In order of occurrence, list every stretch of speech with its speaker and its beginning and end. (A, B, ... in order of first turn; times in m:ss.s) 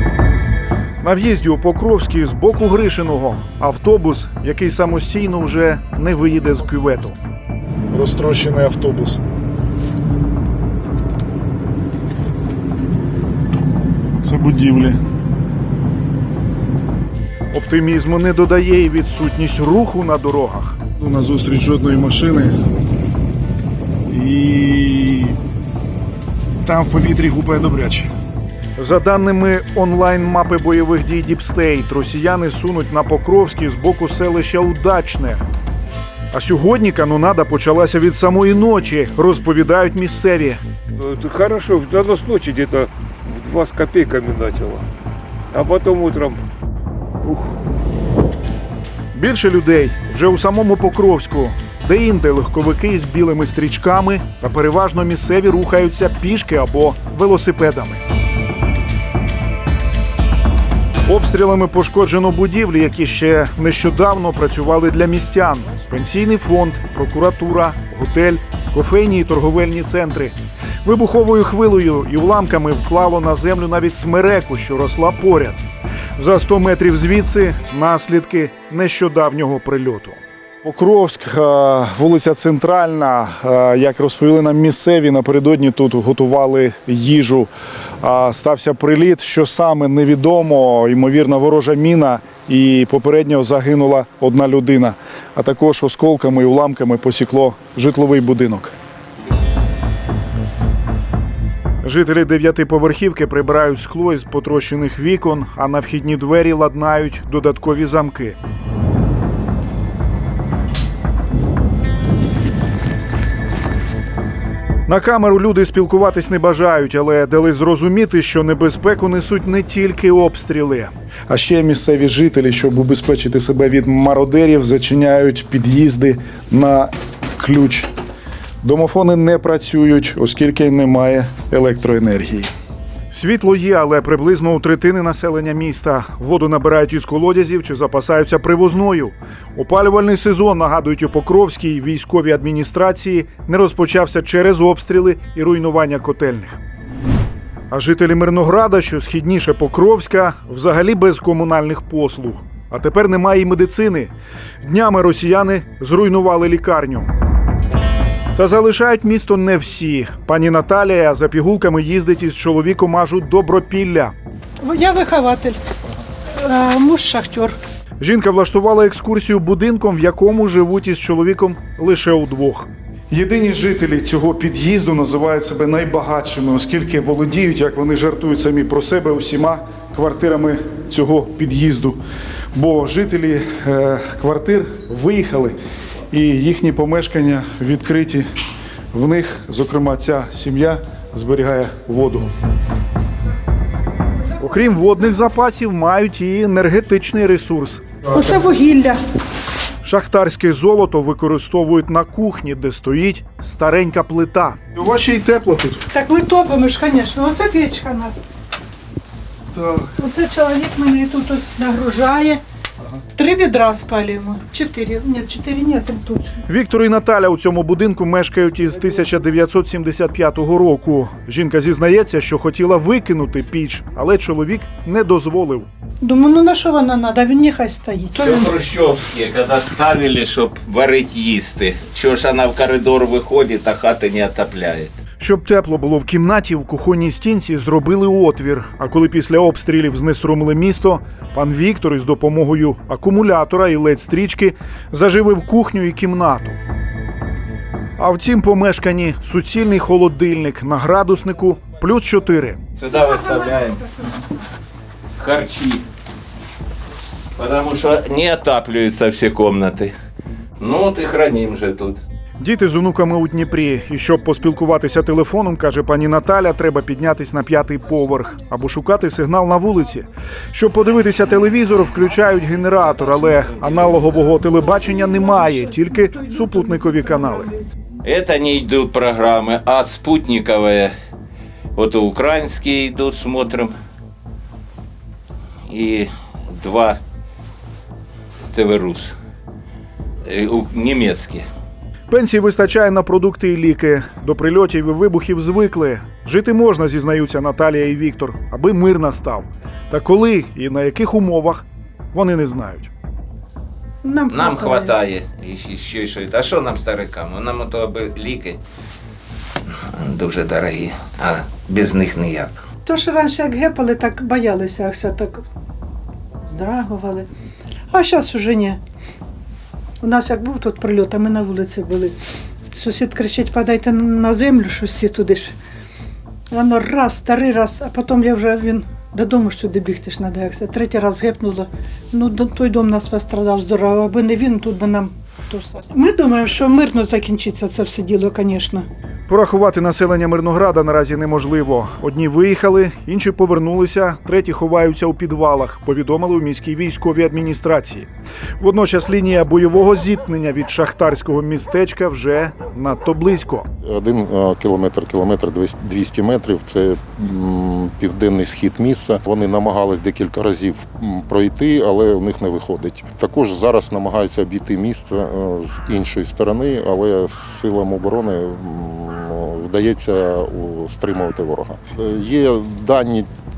0:01.0-0:07.2 A
0:07.9-0:09.2 A
0:14.2-0:15.0 A
0:17.5-0:22.6 A
0:24.1-0:25.4 A
0:26.6-0:28.1 A
0:28.8-0:35.4 A
0:36.3-0:40.6 A
0:41.0-0:44.9 B
0:45.5-0:46.5 B
0:47.2-0:47.5 B
0:49.1-0:58.0 A
1:01.1-1:15.6 A
1:16.2-1:38.7 A
1:41.8-1:48.4 A
1:54.9-2:07.9 A
2:08.6-2:12.5 A
2:13.1-2:26.6 A
2:27.7-2:37.1 A
2:38.4-2:44.1 A
2:44.6-2:45.6 C
2:46.3-2:47.6 C
2:48.0-3:02.0 A
3:02.5-3:05.6 A
3:06.1-3:08.3 A
3:08.9-3:12.3 A
3:14.4-3:18.0 A
3:18.1-3:19.0 C
3:19.8-3:25.9 A
3:25.9-3:28.2 C
3:29.6-3:29.9 A
3:30.0-3:32.4 C
3:33.2-3:36.4 C
3:36.5-3:45.7 A
3:46.0-3:48.5 C
3:48.2-3:54.9 D
3:55.2-4:06.6 A
4:08.0-4:12.6 A
4:12.8-4:14.0 D
4:15.2-4:15.8 D
4:17.4-4:19.9 D
4:20.6-4:22.0 D
4:22.4-4:37.5 A
4:32.8-4:34.1 D
4:38.0-4:40.9 D
4:41.7-4:43.7 D
4:45.7-4:47.0 D
4:48.5-4:49.2 D
4:50.2-4:51.5 D
4:52.1-5:02.9 A
5:04.0-5:05.0 C
5:04.3-5:08.6 D
5:09.9-5:12.6 D
5:12.8-5:15.4 C
5:16.5-5:17.3 C
5:17.9-5:18.8 C
5:20.0-5:22.2 C
5:22.7-5:25.6 C
5:26.5-5:38.9 C
5:39.3-5:48.1 A
5:48.6-5:53.7 A
5:53.8-6:13.3 E